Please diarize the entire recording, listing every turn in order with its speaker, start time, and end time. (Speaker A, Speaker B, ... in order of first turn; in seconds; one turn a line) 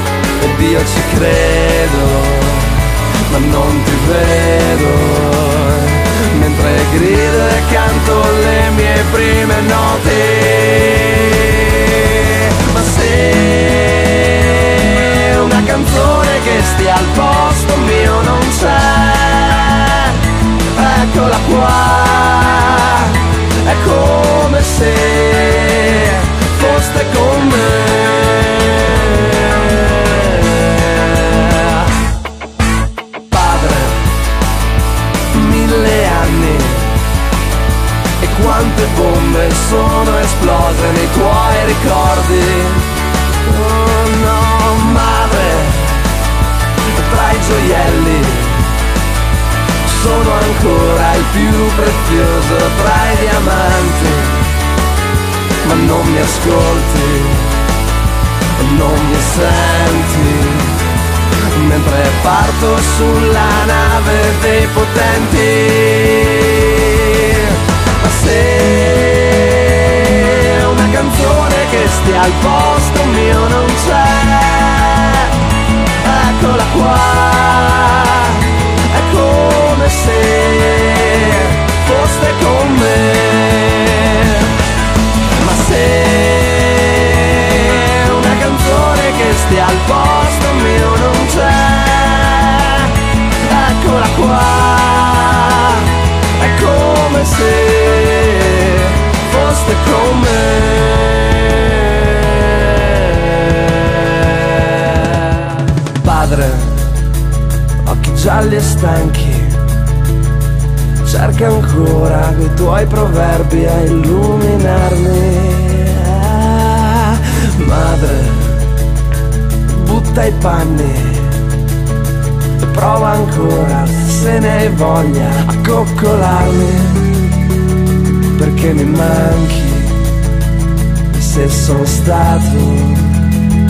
Speaker A: 0.4-20.2
Speaker A: 20.7-31.9
Speaker A: 33.3-34.1
Speaker A: 35.3-37.0
Speaker A: 38.2-42.9
Speaker A: 43.4-46.1
Speaker A: 46.9-48.8
Speaker A: 49.9-54.6
Speaker A: 55.6-57.6
Speaker A: 58.6-60.8
Speaker A: 61.5-75.3
Speaker A: 76.0-84.5
Speaker A: 85.4-107.0
Speaker A: 107.8-109.7
Speaker A: 111.0-118.7
Speaker A: 119.7-121.5
Speaker A: 122.6-127.3
Speaker A: 128.3-130.1
Speaker A: 131.1-133.2